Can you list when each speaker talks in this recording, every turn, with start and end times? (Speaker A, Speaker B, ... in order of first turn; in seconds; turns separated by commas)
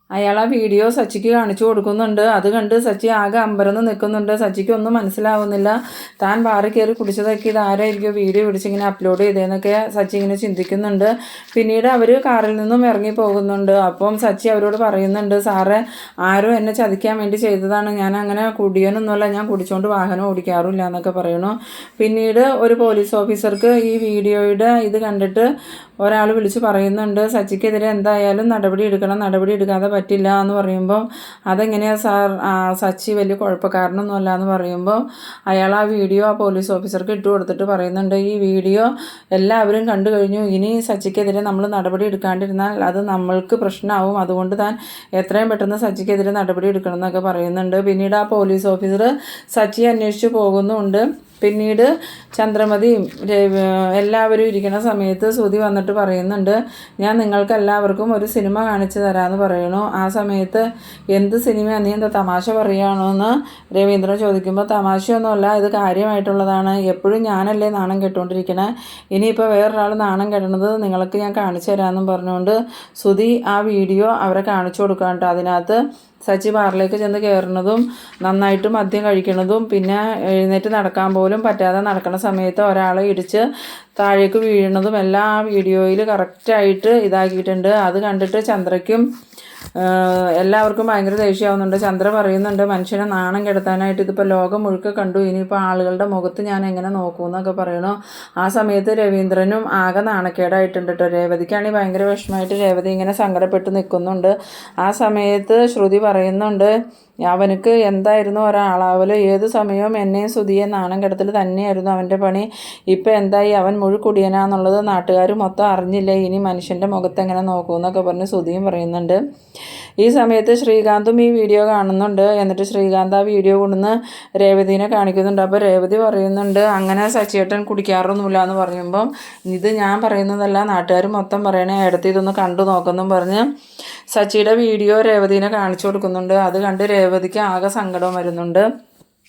Speaker A: 0.2-25.5, Speaker A: 26.0-83.5, Speaker A: 84.0-89.1, Speaker A: 89.8-106.7, Speaker A: 107.3-119.2, Speaker A: 120.0-133.5, Speaker A: 134.1-138.7